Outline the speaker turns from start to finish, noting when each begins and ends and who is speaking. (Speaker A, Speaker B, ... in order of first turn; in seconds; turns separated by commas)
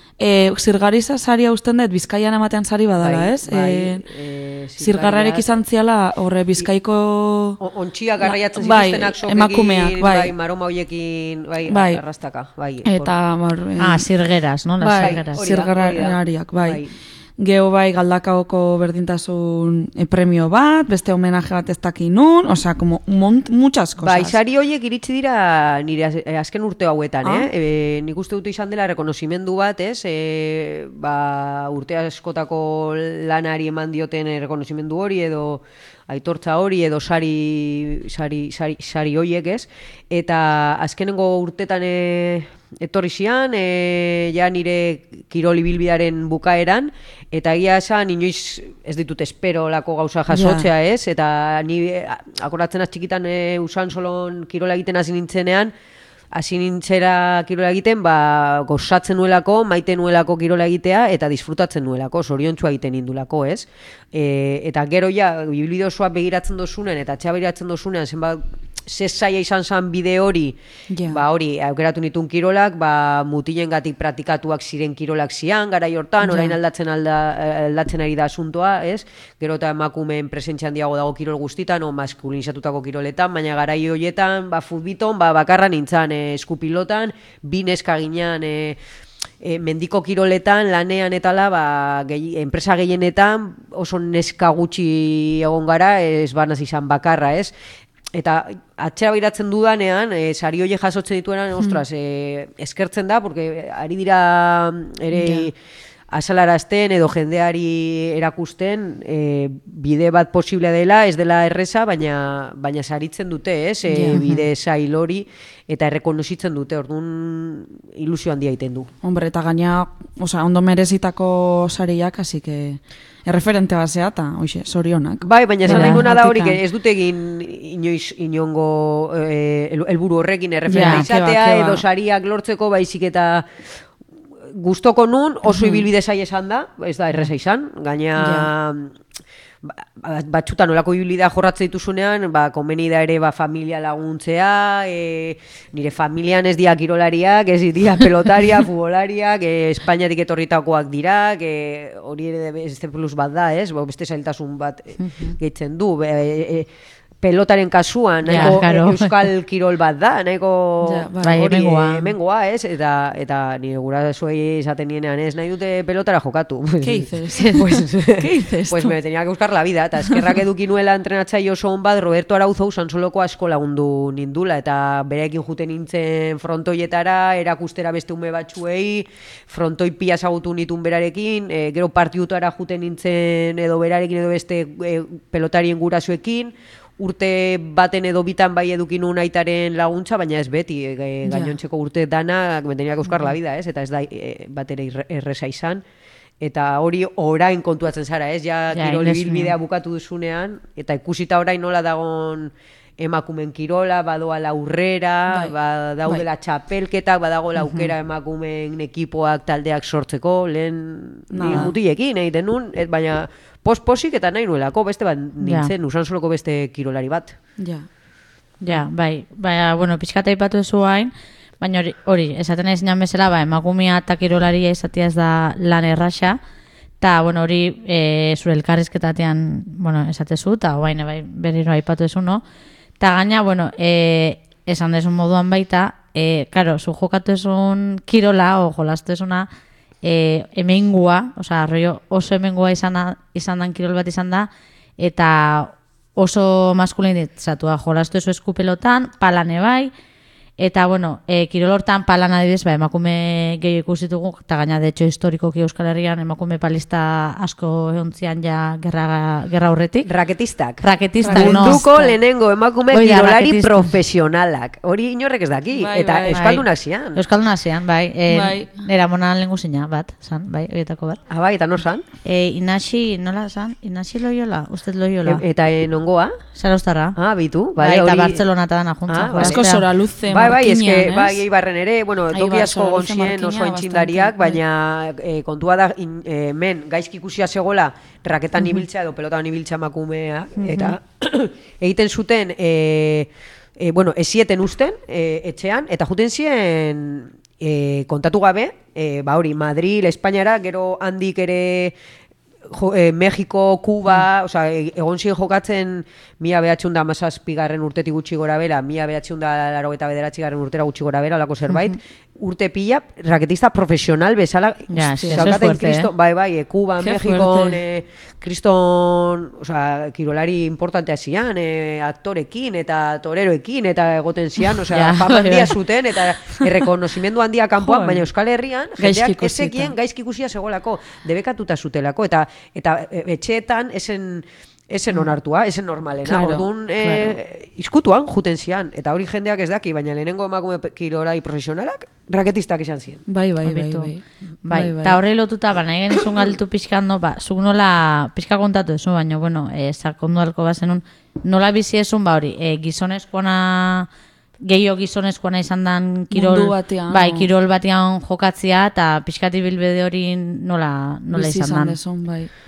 Speaker A: 0.2-4.0, Speaker B: 3.0-5.5, Speaker A: 4.8-7.6, Speaker B: 7.6-13.1, Speaker A: 8.2-10.3, Speaker A: 11.7-12.0, Speaker A: 12.8-14.1, Speaker C: 13.8-15.4, Speaker A: 14.8-16.8, Speaker B: 15.0-16.9, Speaker A: 17.4-24.4, Speaker B: 24.0-55.7, Speaker A: 27.2-27.5, Speaker A: 50.3-50.7, Speaker B: 56.3-70.6, Speaker A: 70.9-71.2, Speaker B: 71.1-88.8, Speaker A: 76.2-76.6, Speaker B: 89.4-97.5, Speaker B: 98.1-105.5, Speaker A: 105.1-105.5, Speaker B: 106.1-118.9, Speaker A: 113.9-114.2, Speaker A: 119.0-126.6, Speaker B: 125.2-133.5, Speaker C: 125.7-126.0, Speaker A: 130.7-131.8, Speaker C: 130.7-131.0, Speaker B: 134.5-138.9, Speaker A: 135.5-135.8, Speaker A: 138.2-138.5, Speaker B: 139.7-156.7, Speaker B: 157.2-195.8, Speaker A: 158.3-158.6, Speaker C: 158.3-159.2, Speaker A: 160.8-161.4, Speaker C: 161.2-162.1, Speaker A: 166.8-168.9, Speaker A: 191.3-191.5, Speaker B: 196.4-217.4, Speaker C: 198.7-199.5, Speaker A: 205.3-205.5, Speaker C: 207.6-207.9, Speaker A: 211.3-211.7, Speaker C: 215.4-215.7, Speaker A: 217.6-217.9, Speaker C: 218.6-226.4, Speaker C: 227.0-232.4, Speaker C: 233.0-239.5, Speaker C: 240.0-249.9, Speaker C: 250.6-260.1, Speaker B: 260.1-267.2, Speaker C: 260.8-262.1, Speaker A: 261.2-261.8, Speaker C: 262.9-263.9, Speaker A: 265.7-266.6, Speaker C: 266.3-271.2, Speaker A: 268.3-268.7, Speaker B: 271.3-272.1, Speaker C: 272.2-275.4, Speaker B: 275.2-276.3, Speaker C: 276.6-277.2, Speaker B: 277.2-278.4, Speaker C: 277.8-279.8, Speaker B: 279.1-279.7, Speaker A: 279.4-281.4, Speaker B: 280.3-301.9, Speaker A: 282.3-284.6, Speaker C: 290.6-290.9, Speaker B: 302.7-343.2, Speaker C: 314.9-316.1, Speaker A: 315.2-315.5, Speaker A: 317.0-317.8, Speaker C: 324.9-325.8, Speaker A: 327.8-328.3, Speaker A: 329.0-329.9, Speaker A: 336.2-337.3, Speaker A: 343.3-345.2, Speaker C: 343.6-344.1, Speaker C: 344.6-354.1, Speaker C: 354.6-362.0, Speaker A: 356.3-357.5, Speaker A: 361.3-362.5